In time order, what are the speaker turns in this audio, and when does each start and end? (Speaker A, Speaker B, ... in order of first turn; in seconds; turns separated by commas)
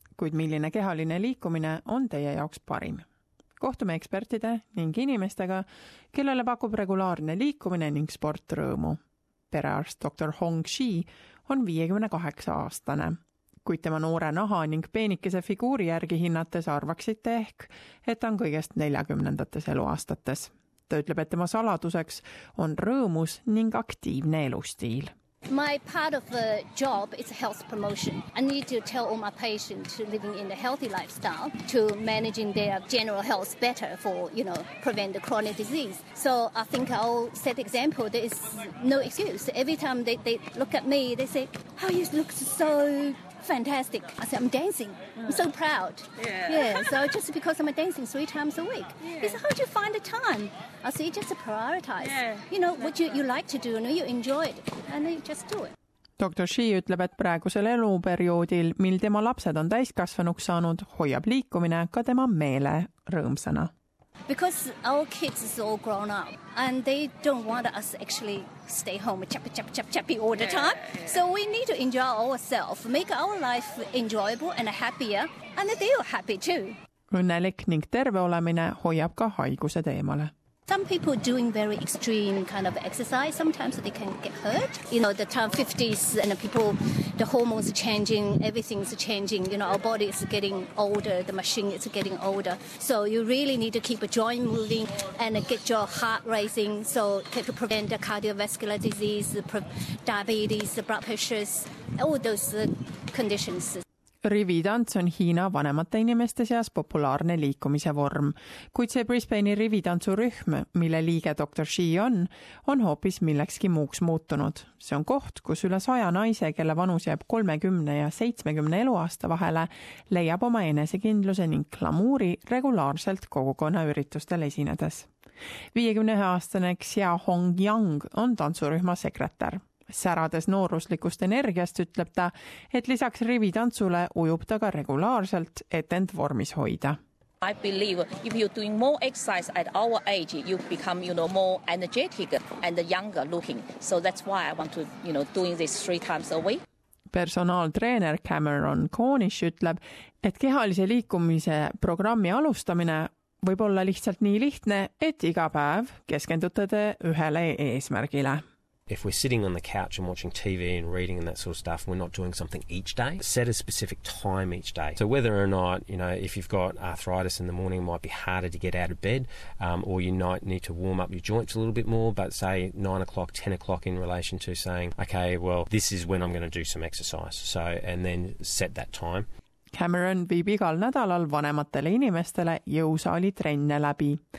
Speaker A: 0.2-3.0, Speaker A: 3.6-9.0, Speaker A: 9.5-25.1, Speaker B: 25.5-55.7, Speaker A: 56.2-63.7, Speaker B: 64.3-76.8, Speaker A: 77.1-80.3, Speaker B: 80.7-103.8, Speaker A: 104.2-125.1, Speaker A: 125.7-137.0, Speaker C: 137.4-146.6, Speaker A: 147.1-158.4, Speaker D: 158.9-179.3, Speaker A: 179.7-184.2